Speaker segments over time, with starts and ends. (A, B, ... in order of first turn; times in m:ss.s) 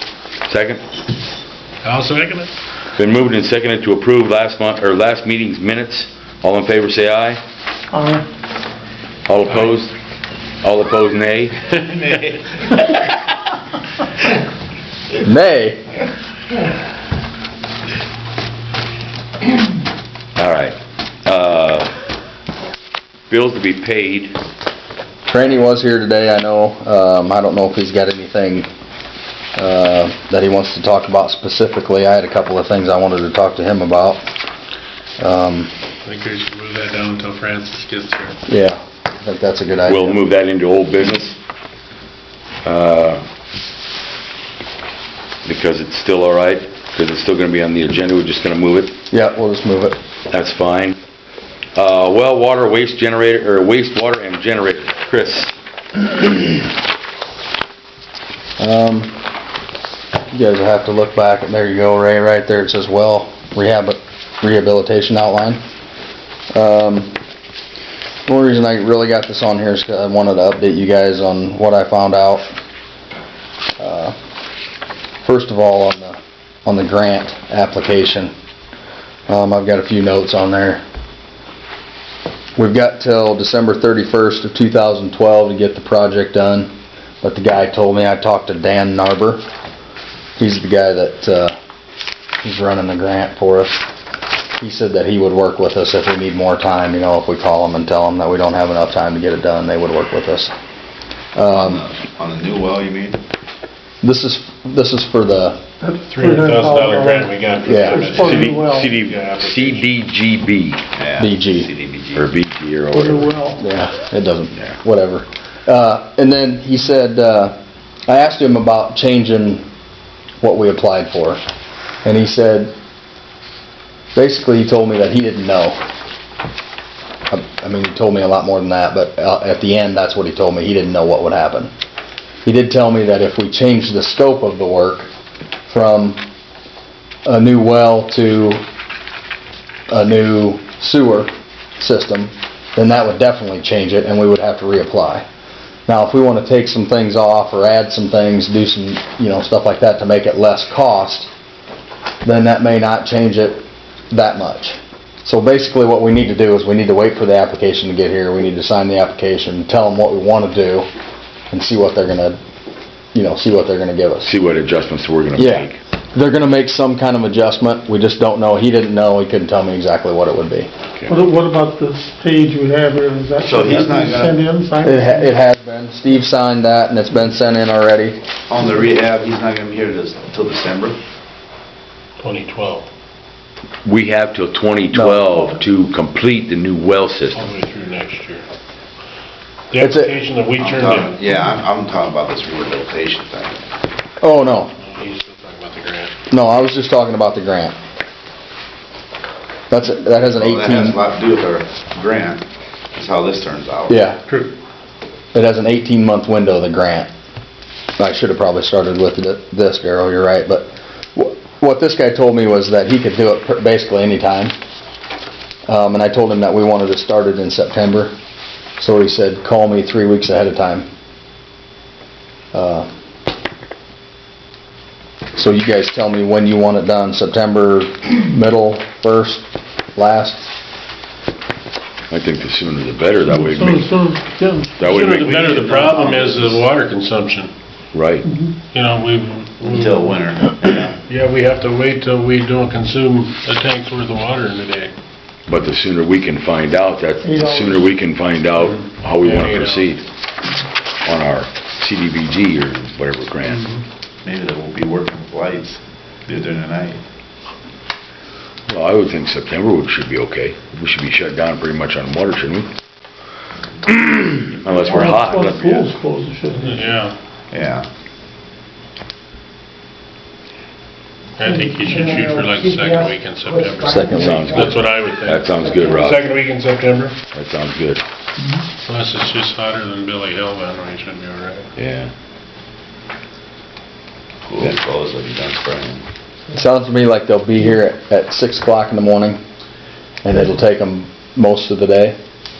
0:00.5-0:00.8 A
0:01.8-0:02.5 B
0:03.0-0:07.4 A
0:07.9-0:08.2 C
0:09.3-0:09.9 A
0:10.6-0:11.8 A
0:11.8-0:12.9 D
0:15.2-0:16.0 E
0:20.4-0:21.9 A
0:23.3-0:24.4 A
0:25.3-0:28.7 E
0:29.6-0:34.2 E
0:35.2-0:35.7 E
0:36.0-0:38.4 B
0:38.5-0:40.2 E
0:39.9-0:41.4 A
0:42.6-0:43.2 A
0:45.4-0:48.9 A
0:49.1-0:50.0 E
0:50.3-0:51.0 A
0:51.7-0:56.6 A
0:58.6-0:59.2 E
1:00.3-1:05.6 E
1:06.5-1:07.1 E
1:08.3-1:12.5 E
1:13.8-1:14.2 E
1:15.2-1:18.3 E
1:19.3-1:20.8 E
1:22.6-1:29.4 E
1:30.4-1:31.5 E
1:32.4-1:33.8 E
1:34.6-1:40.5 E
1:41.3-1:41.8 E
1:41.5-1:43.2 D
1:44.0-1:45.6 E
1:45.8-1:47.3 C
1:46.1-1:49.9 B
1:47.6-1:48.2 E
1:47.8-1:48.9 C
1:48.2-1:50.8 A
1:50.9-1:52.3 D
1:51.2-1:51.7 E
1:52.1-1:53.3 A
1:52.9-1:53.6 C
1:53.6-1:57.6 E
1:58.1-1:59.6 E
2:00.4-2:01.4 E
2:02.0-2:02.7 E
2:04.1-2:05.8 E
2:07.3-2:11.7 E
2:12.4-2:15.1 E
2:15.7-2:16.2 E
2:17.2-2:18.6 E
2:19.9-2:25.2 E
2:25.9-2:31.3 E
2:32.2-2:40.9 E
2:41.5-2:42.4 E
2:43.1-2:44.3 E
2:44.2-2:45.8 A
2:45.4-2:50.7 E
2:51.1-2:55.3 C
2:53.4-2:54.4 D
2:54.8-2:58.2 E
2:58.5-3:01.0 D
3:02.2-3:02.9 B
3:03.8-3:07.4 A
3:04.9-3:05.5 E
3:07.3-3:08.4 B
3:09.7-3:11.2 B
3:09.8-3:10.2 E
3:10.5-3:13.6 D
3:14.2-3:14.7 E
3:14.8-3:16.1 B
3:16.3-3:17.8 E
3:19.7-3:21.0 E
3:20.2-3:22.4 D
3:22.9-3:24.1 D
3:23.9-3:24.2 E
3:24.3-3:24.5 B
3:25.3-3:27.1 E
3:28.0-3:34.5 E
3:35.7-3:38.1 E
3:38.8-3:40.9 E
3:42.5-3:42.9 E
3:45.3-3:50.5 E
3:52.1-3:54.0 A
3:53.3-3:54.9 C
3:54.8-3:56.0 A
3:54.8-3:57.5 B
3:55.2-3:56.6 D
3:57.9-3:58.3 A
3:58.2-3:58.5 C
3:58.7-4:00.2 B
3:59.6-4:01.0 D
4:01.1-4:04.9 B
4:05.5-4:10.0 A
4:07.2-4:07.9 C
4:08.6-4:09.9 B
4:11.0-4:13.6 A
4:13.5-4:13.8 B
4:14.2-4:17.0 D
4:18.7-4:22.7 A
4:23.8-4:25.9 A
4:24.8-4:27.0 C
4:26.6-4:27.2 B
4:27.5-4:27.8 D
4:31.4-4:37.2 B
4:33.8-4:34.6 E
4:34.1-4:36.2 A
4:37.3-4:38.0 A
4:38.8-4:41.7 B
4:41.8-4:42.1 A
4:44.5-4:46.0 D
4:46.5-4:49.4 E
4:50.2-4:52.2 E